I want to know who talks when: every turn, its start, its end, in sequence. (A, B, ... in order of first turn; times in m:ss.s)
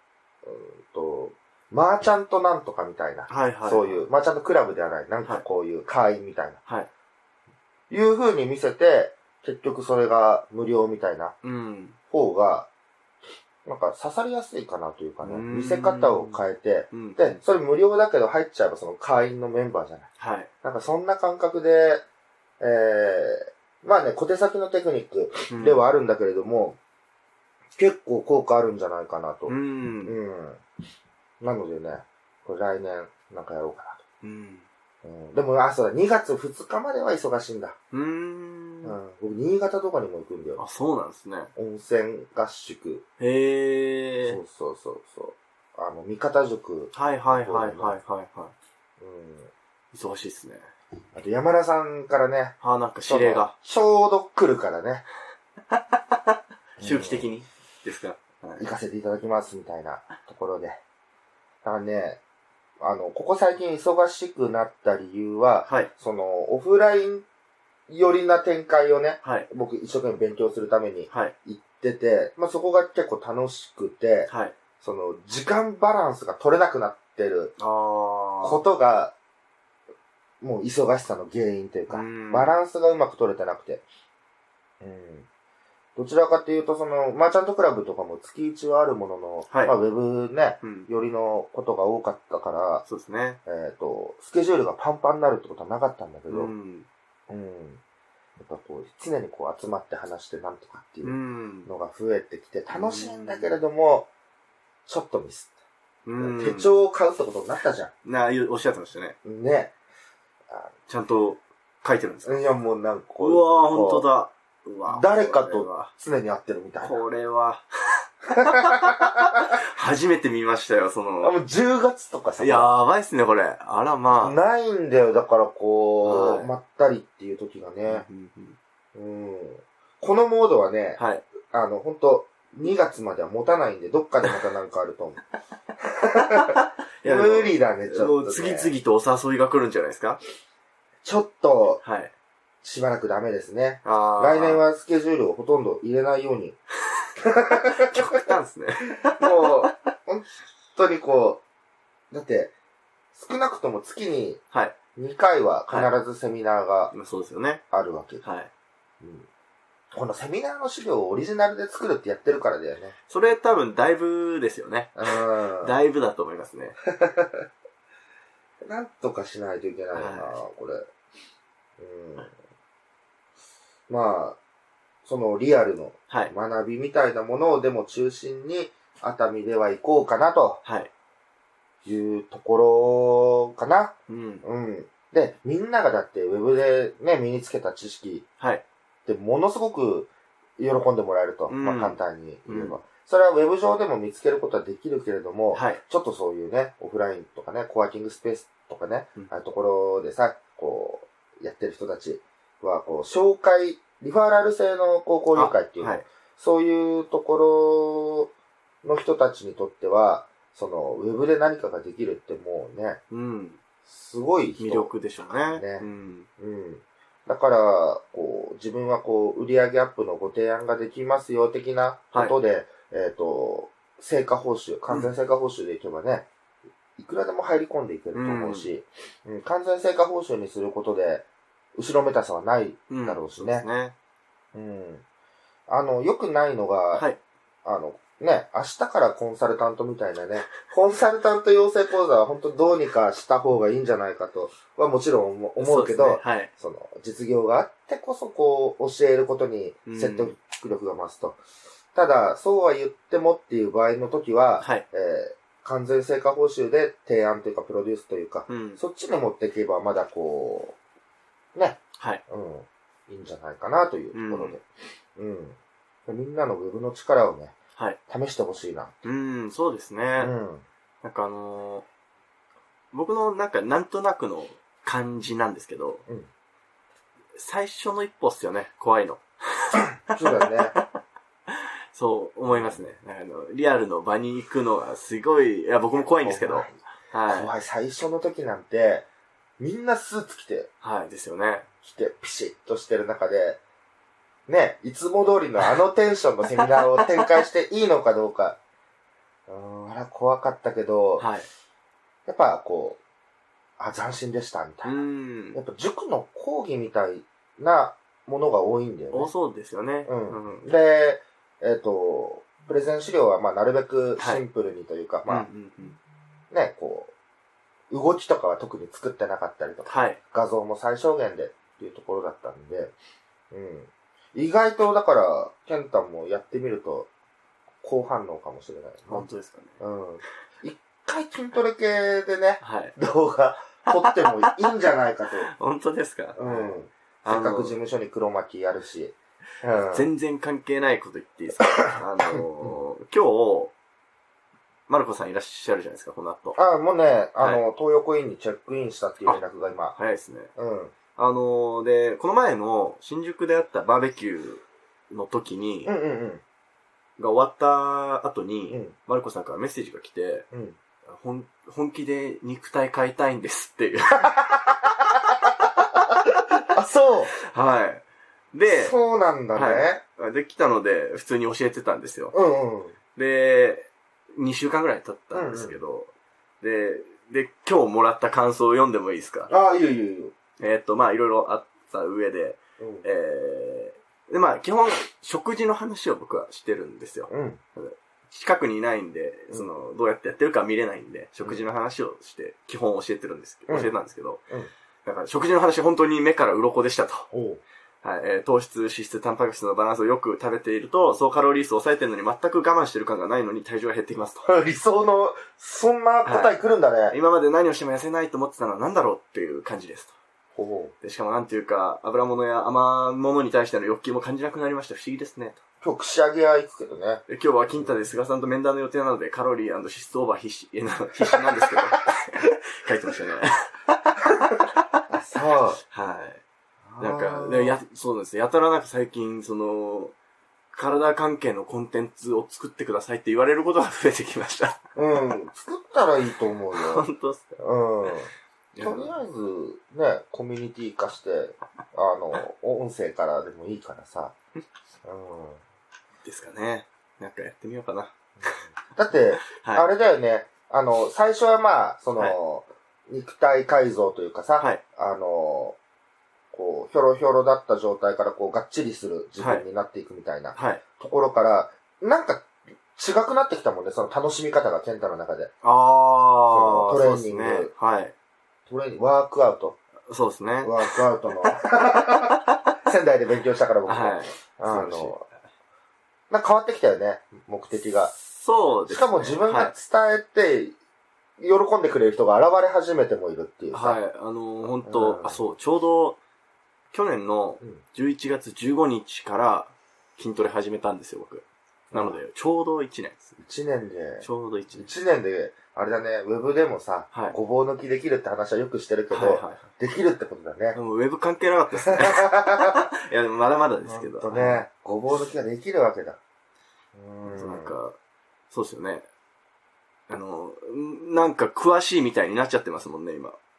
0:00.4-0:06.6 A
0:03.3-0:04.0 B
0:07.9-0:11.4 A
0:11.4-0:12.0 B
0:12.1-0:12.7 A
0:13.6-0:20.1 A
0:15.2-0:17.3 B
0:20.2-0:20.5 B
0:20.6-0:22.0 A
0:22.6-0:26.8 A
0:25.5-0:25.8 B
0:27.8-0:30.6 A
0:29.5-0:30.2 B
0:31.4-0:34.0 A
0:34.2-0:34.6 B
0:35.0-0:37.8 A
0:37.9-0:39.0 B
0:38.8-0:40.6 A
0:40.6-0:41.5 B
0:41.6-0:43.0 A
0:43.2-0:44.4 B
0:44.2-0:48.0 A
0:46.9-0:48.5 B
0:49.0-0:49.5 A
0:49.9-0:50.7 B
0:51.1-0:55.0 A
0:52.6-0:53.5 B
0:55.7-0:58.7 B
0:56.8-0:57.3 A
0:58.6-1:00.8 A
1:01.6-1:02.2 A
1:02.8-1:07.2 A
1:05.6-1:05.9 B
1:07.9-1:17.5 A
1:09.2-1:09.5 B
1:11.1-1:11.3 B
1:14.3-1:14.6 B
1:17.6-1:18.6 B
1:18.4-1:19.1 A
1:20.4-1:23.8 A
1:21.9-1:22.6 B
1:24.8-1:25.3 A
1:26.0-1:32.8 A
1:29.5-1:29.7 B
1:30.6-1:30.9 B
1:32.8-1:33.4 B
1:33.4-1:36.5 A
1:36.3-1:36.9 B
1:37.3-1:37.8 A
1:38.4-1:44.1 A
1:41.0-1:41.7 B
1:42.7-1:43.6 B
1:44.8-1:45.5 A
1:46.0-1:46.7 B
1:46.2-1:47.9 A
1:48.0-1:49.2 B
1:49.2-1:49.7 A
1:50.9-1:52.4 B
1:52.2-1:54.1 A
1:53.2-1:55.9 B
1:54.9-1:57.0 A
1:56.8-2:01.3 B
1:58.4-1:59.6 A
2:01.2-2:02.7 A
2:02.4-2:04.4 B
2:04.2-2:08.0 A
2:06.0-2:06.5 B
2:07.8-2:08.6 B
2:08.9-2:15.2 A
2:11.0-2:11.2 B
2:15.8-2:18.7 A
2:16.3-2:20.2 B
2:21.0-2:21.8 A
2:21.8-2:22.1 B
2:22.6-2:26.6 A
2:23.8-2:24.6 B
2:27.2-2:28.1 A
2:27.6-2:29.7 B
2:29.0-2:31.4 A
2:32.1-2:32.5 A
2:33.1-2:34.4 A
2:34.9-2:36.9 A
2:36.9-2:37.6 B
2:37.7-2:38.2 A
2:38.2-2:38.5 B
2:39.0-2:39.3 A
2:39.9-2:42.9 A
2:43.1-2:46.8 B
2:45.0-2:45.7 A
2:46.9-2:47.4 A
2:48.6-2:50.9 A
2:49.9-2:50.4 B
2:51.8-2:52.3 A
2:53.9-2:54.4 A
2:55.0-3:00.6 A
3:00.6-3:00.9 B
3:01.8-3:08.2 A
3:04.1-3:04.4 B
3:09.0-3:28.3 A
3:11.5-3:12.8 B
3:15.5-3:15.8 B
3:25.3-3:26.1 B
3:28.8-3:33.0 A
3:33.1-3:33.6 B
3:33.8-3:35.8 A
3:34.6-3:36.3 B
3:36.4-3:46.3 A
3:47.0-3:51.2 A
3:48.1-3:48.7 B
3:51.8-3:53.6 A
3:52.9-3:53.9 B
3:54.5-3:55.0 A
3:55.7-3:57.0 A
3:56.9-3:57.2 B
3:57.6-4:11.4 A
4:05.6-4:06.5 B
4:09.8-4:10.3 B
4:11.9-4:20.8 A
4:14.6-4:14.8 B
4:18.5-4:18.8 B
4:21.5-4:24.6 A
4:22.0-4:22.2 B
4:24.1-4:24.6 B
4:25.1-4:27.5 A
4:28.1-4:28.9 A
4:29.0-4:30.3 B
4:30.2-4:30.6 A
4:31.0-4:31.8 B
4:32.9-4:36.0 B
4:37.3-4:40.8 B
4:40.1-4:40.7 A
4:41.5-4:47.5 B
4:42.5-4:42.8 A
4:46.2-4:49.0 A
4:49.6-4:50.7 A
4:50.8-4:51.7 B
4:51.8-4:53.6 A
4:54.5-4:58.6 A
4:59.5-5:01.3 A
5:01.2-5:01.5 B
5:02.2-5:03.0 A
5:03.8-5:05.0 A
5:04.8-5:05.6 B
5:05.5-5:09.3 A
5:09.1-5:10.6 B
5:10.0-5:15.5 A
5:14.2-5:14.4 B
5:15.3-5:16.0 B
5:16.5-5:17.1 A
5:17.9-5:22.9 A
5:19.8-5:20.2 B
5:23.5-5:27.1 A
5:27.8-5:29.3 A
5:29.1-5:29.8 B
5:29.8-5:35.5 A
5:32.6-5:33.0 B
5:33.9-5:34.6 B
5:35.4-5:37.8 B
5:36.4-5:40.1 A
5:39.8-5:43.7 B
5:44.9-5:46.6 B
5:46.6-5:50.0 A
5:49.9-5:50.5 B
5:50.6-5:50.9 A
5:51.2-5:55.9 B
5:55.8-5:56.4 A
5:57.2-6:00.5 B
5:58.7-5:58.9 A
6:00.5-6:00.8 A
6:01.0-6:04.3 B
6:04.2-6:07.3 A
6:07.4-6:08.9 B
6:08.7-6:10.0 A
6:09.5-6:12.3 B
6:12.3-6:13.0 A
6:13.2-6:19.5 B
6:15.3-6:15.8 A
6:19.5-6:20.3 A
6:20.6-6:34.5 B
6:22.8-6:23.0 A
6:27.3-6:27.6 A
6:33.7-6:33.9 A
6:35.0-6:37.3 B
6:37.3-6:37.6 A
6:38.0-6:44.5 B
6:44.4-6:47.1 A
6:46.2-6:46.5 B
6:47.1-6:50.1 B
6:50.5-6:50.9 A
6:51.0-6:55.6 B
6:55.8-6:57.2 A
6:57.3-7:04.6 B
6:57.8-6:58.0 A
7:01.3-7:01.9 A
7:05.1-7:05.8 A
7:05.8-7:06.4 B
7:06.8-7:07.8 A
7:07.0-7:10.1 B
7:10.7-7:14.8 B
7:14.9-7:17.0 A
7:16.7-7:17.6 B
7:17.6-7:18.3 A
7:18.7-7:19.2 B
7:18.8-7:24.3 A
7:25.0-7:25.6 A
7:26.2-7:28.6 B
7:28.4-7:35.8 A
7:29.5-7:29.9 B
7:36.5-7:45.5 A
7:39.4-7:39.6 B
7:40.5-7:40.8 B
7:45.6-7:48.1 B
7:46.5-7:47.7 A
7:48.7-7:49.8 A
7:50.1-7:51.0 B
7:50.6-7:55.2 A
7:51.9-7:52.7 B
7:53.8-7:55.2 B
7:56.3-7:58.1 A
7:58.2-7:59.7 B
7:58.9-8:00.7 A
8:01.4-8:04.0 A
8:03.7-8:06.2 B
8:04.8-8:05.4 A
8:06.9-8:13.3 B
8:11.9-8:12.2 A
8:13.4-8:20.8 A
8:14.2-8:14.9 B
8:19.1-8:19.7 B
8:20.7-8:24.6 B
8:21.9-8:22.9 A
8:23.8-8:26.2 A
8:26.9-8:27.7 A
8:27.2-8:28.0 B
8:28.5-8:29.0 B
8:30.1-8:33.4 B